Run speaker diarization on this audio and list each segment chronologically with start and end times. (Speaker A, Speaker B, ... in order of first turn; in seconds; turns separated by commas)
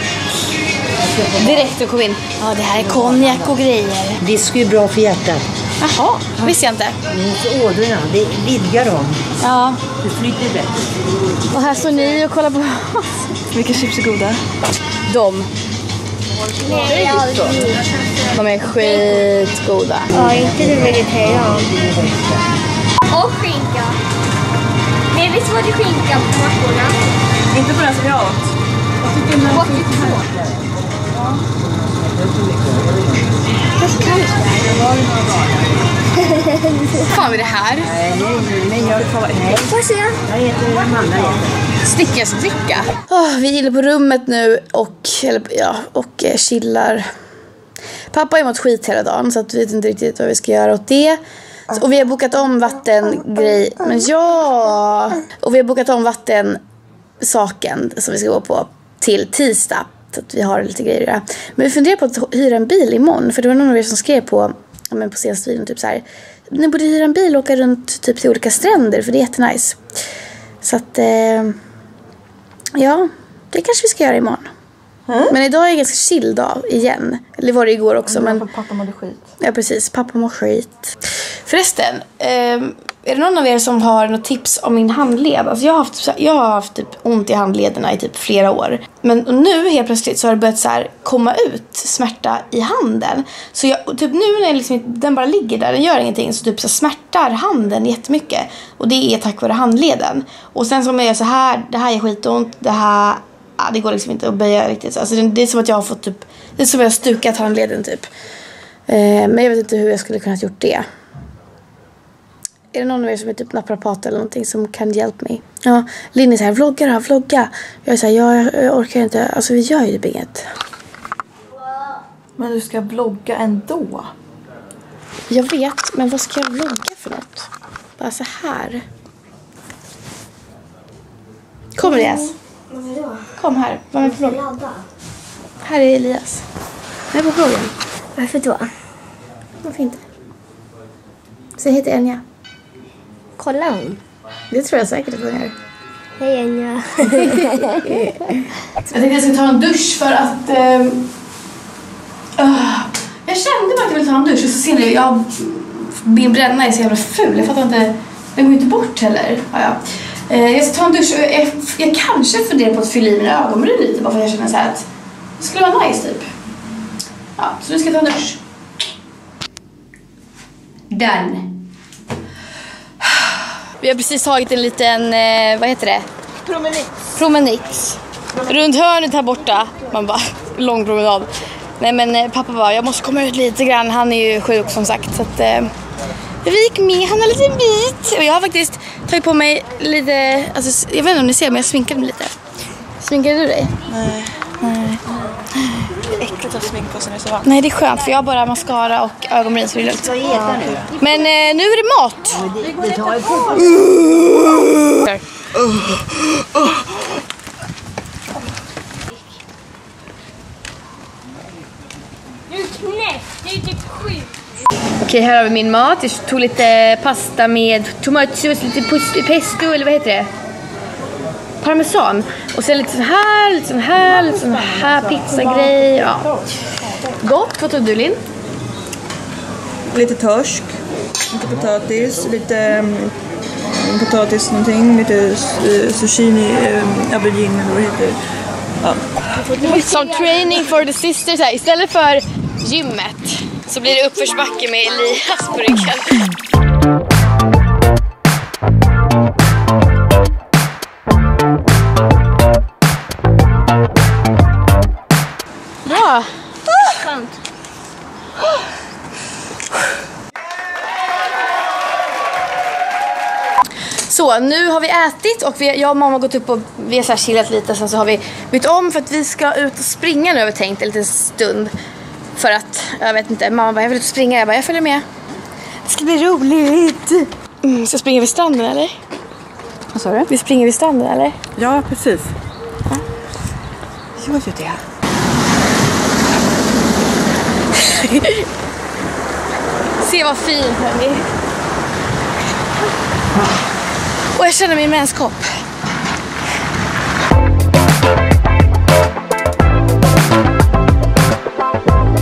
Speaker A: 1.3-4.2, Speaker B: 4.2-5.4, Speaker A: 5.8-7.0, Speaker B: 7.1-9.2, Speaker A: 9.4-9.8, Speaker B: 10.1-10.7, Speaker A: 11.5-13.5, Speaker C: 13.5-14.4, Speaker A: 15.1-15.5, Speaker D: 16.6-17.9, Speaker A: 18.3-20.1, Speaker D: 20.1-21.9, Speaker D: 23.1-24.0, Speaker D: 25.1-27.0, Speaker C: 27.5-28.5, Speaker D: 29.3-30.3, Speaker D: 33.8-34.8, Speaker D: 36.3-36.8, Speaker A: 36.9-38.0, Speaker C: 38.7-39.7, Speaker D: 39.5-40.2, Speaker B: 40.3-41.4, Speaker A: 41.8-47.1, Speaker A: 48.1-51.2, Speaker A: 51.7-56.6, Speaker A: 57.2-69.8, Speaker A: 70.6-71.5, Speaker A: 72.7-74.5, Speaker A: 75.3-78.5, Speaker C: 78.6-79.2, Speaker A: 79.4-108.1, Speaker A: 108.9-110.8, Speaker A: 112.7-120.5, Speaker C: 122.4-124.1, Speaker A: 125.3-128.8, Speaker A: 131.8-132.3, Speaker D: 131.8-133.3, Speaker A: 133.4-134.4, Speaker D: 134.2-134.8, Speaker A: 135.6-136.4, Speaker A: 137.1-137.7, Speaker D: 138.2-138.7, Speaker A: 139.6-140.0, Speaker A: 141.6-142.2, Speaker D: 143.4-144.0, Speaker A: 144.5-145.5, Speaker D: 146.2-148.3, Speaker A: 147.1-148.2, Speaker A: 148.8-151.1, Speaker A: 152.4-164.8, Speaker A: 165.4-166.3, Speaker A: 167.4-168.4, Speaker A: 170.9-171.5, Speaker A: 173.8-176.1, Speaker A: 177.1-185.7, Speaker A: 186.4-192.3, Speaker A: 193.0-193.7, Speaker C: 193.9-194.4, Speaker A: 194.6-195.0, Speaker A: 195.6-195.8, Speaker C: 196.3-197.4, Speaker A: 197.4-202.6, Speaker B: 200.3-200.7, Speaker B: 202.6-203.4, Speaker A: 203.3-205.2, Speaker D: 212.5-214.2, Speaker A: 215.0-220.3, Speaker A: 221.6-226.4, Speaker A: 227.1-228.2, Speaker C: 229.9-230.7, Speaker C: 231.3-233.1, Speaker C: 233.7-238.2, Speaker D: 239.4-240.5, Speaker A: 239.6-246.3, Speaker A: 255.8-256.3, Speaker D: 256.7-257.3, Speaker A: 264.1-271.7, Speaker A: 272.4-275.0, Speaker A: 275.9-279.0, Speaker A: 280.3-281.4, Speaker C: 281.6-282.2, Speaker C: 284.2-284.8, Speaker A: 287.8-288.4, Speaker A: 290.0-291.3, Speaker A: 294.3-295.5